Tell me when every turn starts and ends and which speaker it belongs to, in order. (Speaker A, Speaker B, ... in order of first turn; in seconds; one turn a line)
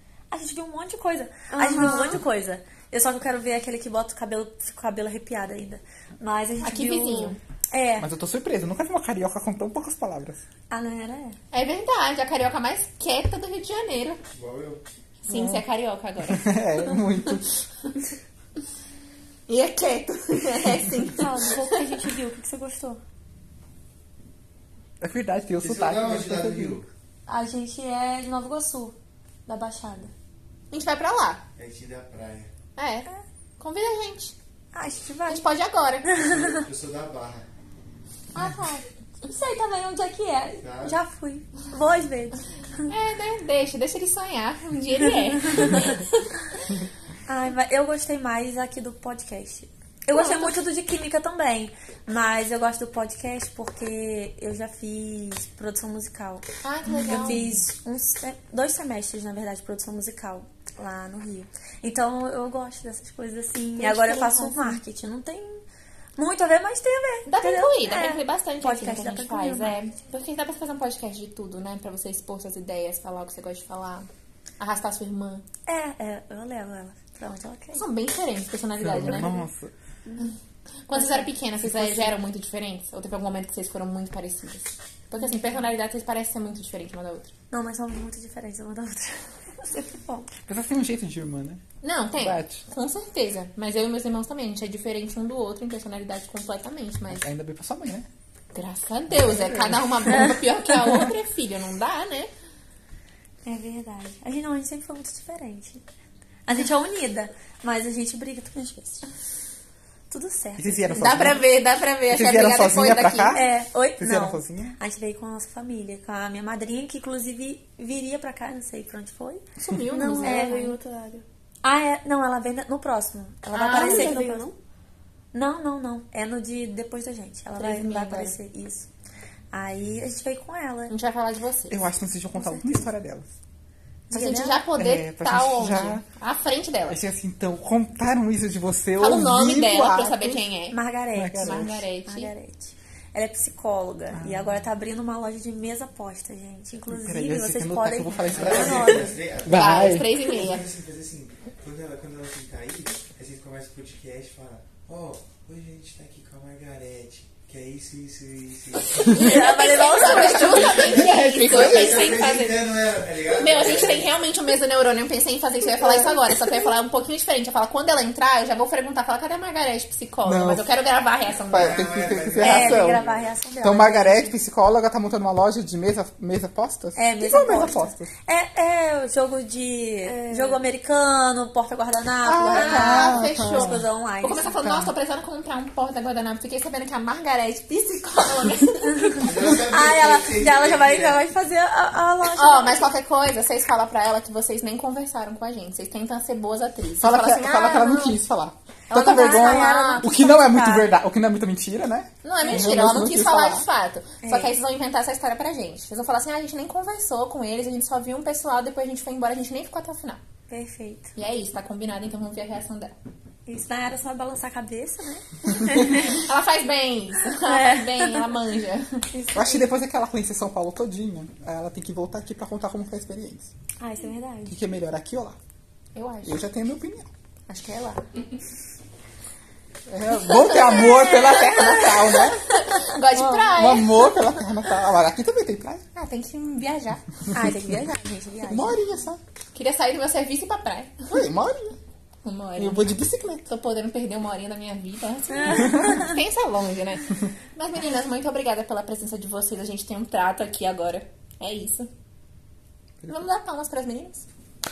Speaker A: 0.3-8.1
Speaker B: 1.5-2.2
Speaker C: 6.6-7.4
Speaker D: 8.0-10.4
Speaker A: 10.7-11.4
Speaker C: 11.5-14.2
Speaker E: 14.3-14.8
Speaker C: 15.2-17.3
Speaker D: 15.3-15.6
Speaker D: 16.2-17.5
Speaker C: 19.5-21.9
Speaker A: 21.2-23.0
Speaker D: 25.0-26.8
Speaker E: 25.6-26.9
Speaker A: 27.3-28.9
Speaker A: 29.5-30.1
Speaker C: 30.7-31.4
Speaker E: 31.6-32.5
Speaker C: 32.8-33.1
Speaker C: 33.6-34.4
Speaker A: 34.7-35.4
Speaker C: 35.3-36.1
Speaker A: 36.1-36.6
Speaker E: 36.2-37.5
Speaker A: 38.4-42.5
Speaker C: 38.4-38.8
Speaker E: 40.6-41.0
Speaker C: 42.9-46.1
Speaker A: 45.5-45.8
Speaker A: 47.3-56.5
Speaker C: 50.1-50.6
Speaker C: 56.6-57.6
Speaker A: 57.0-65.6
Speaker C: 63.8-64.8
Speaker A: 66.2-69.8
Speaker C: 67.3-74.1
Speaker C: 74.6-75.4
Speaker A: 75.7-77.8
Speaker C: 77.7-79.5
Speaker D: 78.8-79.7
Speaker C: 80.9-87.3
Speaker A: 80.9-81.9
Speaker A: 87.5-90.3
Speaker D: 90.5-91.6
Speaker C: 91.8-97.2
Speaker D: 92.2-92.6
Speaker D: 97.1-98.1
Speaker C: 98.5-102.3
Speaker D: 99.1-101.1
Speaker A: 103.5-105.8
Speaker A: 106.5-109.0
Speaker A: 110.1-111.1
Speaker D: 110.6-111.4
Speaker C: 110.9-113.4
Speaker D: 112.1-114.8
Speaker A: 113.3-120.7
Speaker C: 119.6-120.8
Speaker B: 119.9-121.2
Speaker A: 121.6-124.5
Speaker C: 123.5-124.2
Speaker B: 123.7-124.6
Speaker A: 125.3-128.9
Speaker C: 127.6-128.4
Speaker A: 129.5-130.9
Speaker C: 130.9-131.8
Speaker D: 131.7-133.3
Speaker A: 132.3-132.9
Speaker A: 134.1-134.7
Speaker C: 134.1-137.0
Speaker D: 134.8-136.0
Speaker D: 136.9-140.4
Speaker C: 139.0-140.8
Speaker A: 140.7-149.2
Speaker D: 141.2-141.9
Speaker C: 141.4-142.3
Speaker D: 144.1-144.6
Speaker D: 146.9-150.1
Speaker E: 148.3-159.3
Speaker C: 149.5-150.7
Speaker A: 159.1-161.0
Speaker C: 159.1-162.7
Speaker D: 160.4-162.2
Speaker E: 160.9-164.1
Speaker C: 163.3-171.9
Speaker D: 165.8-166.2
Speaker D: 170.2-170.6
Speaker E: 171.4-173.3
Speaker D: 171.5-173.0
Speaker A: 172.3-174.3
Speaker D: 173.6-178.1
Speaker A: 177.0-184.6
Speaker B: 180.1-180.6
Speaker D: 182.2-183.8
Speaker C: 182.3-189.3
Speaker D: 184.5-184.9
Speaker A: 189.0-192.9
Speaker E: 189.2-191.2
Speaker C: 192.2-198.2
Speaker D: 197.0-203.7
Speaker A: 198.9-200.9
Speaker C: 198.9-200.1
Speaker C: 202.2-210.2
Speaker A: 204.2-204.6
Speaker A: 210.5-211.1
Speaker C: 211.2-212.9
Speaker A: 213.5-216.1
Speaker C: 215.8-218.9
Speaker A: 217.5-218.2
Speaker A: 219.1-219.7
Speaker D: 219.3-223.5
Speaker A: 223.8-224.6
Speaker D: 224.5-225.4
Speaker C: 225.9-226.4
Speaker D: 226.2-227.1
Speaker C: 227.5-228.0
Speaker D: 229.9-232.4
Speaker C: 230.1-234.2
Speaker A: 233.1-233.5
Speaker D: 233.6-235.8
Speaker C: 235.9-237.0
Speaker A: 237.3-238.8
Speaker D: 238.5-239.2
Speaker C: 239.5-241.2
Speaker D: 241.1-241.8
Speaker C: 242.2-242.9
Speaker D: 242.6-243.4
Speaker C: 243.5-251.9
Speaker C: 253.1-254.3